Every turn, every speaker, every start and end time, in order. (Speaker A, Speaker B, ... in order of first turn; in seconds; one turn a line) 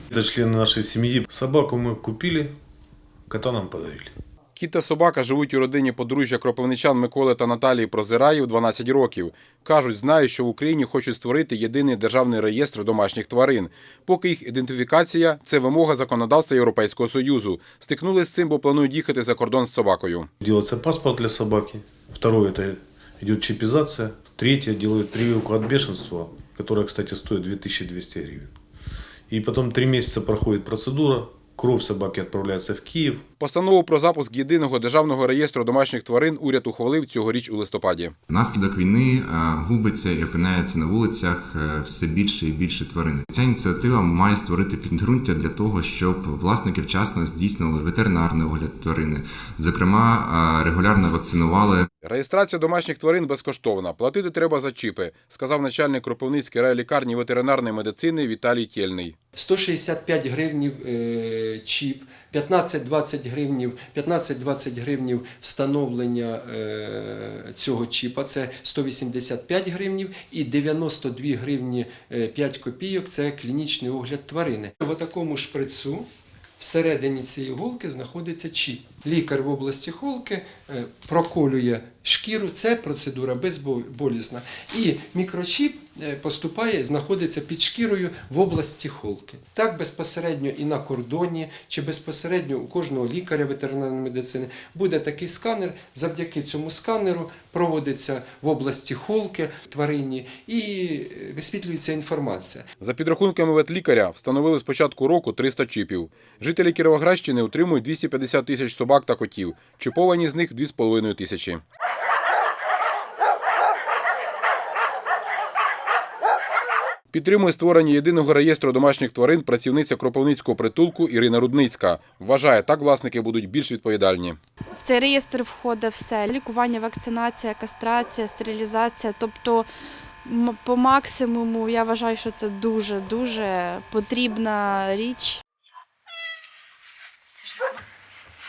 Speaker A: 0.1-2.5
Speaker A: 3.3-4.1
Speaker B: 4.5-20.3
Speaker A: 20.4-28.5
Speaker A: 29.3-33.2
Speaker B: 33.4-38.1
Speaker C: 38.3-51.9
Speaker B: 52.0-59.1
Speaker D: 59.4-76.1
Speaker D: 76.6-102.7
Speaker B: 102.8-111.6
Speaker B: 117.1-124.4
Speaker E: 124.7-129.7
Speaker E: 130.2-135.4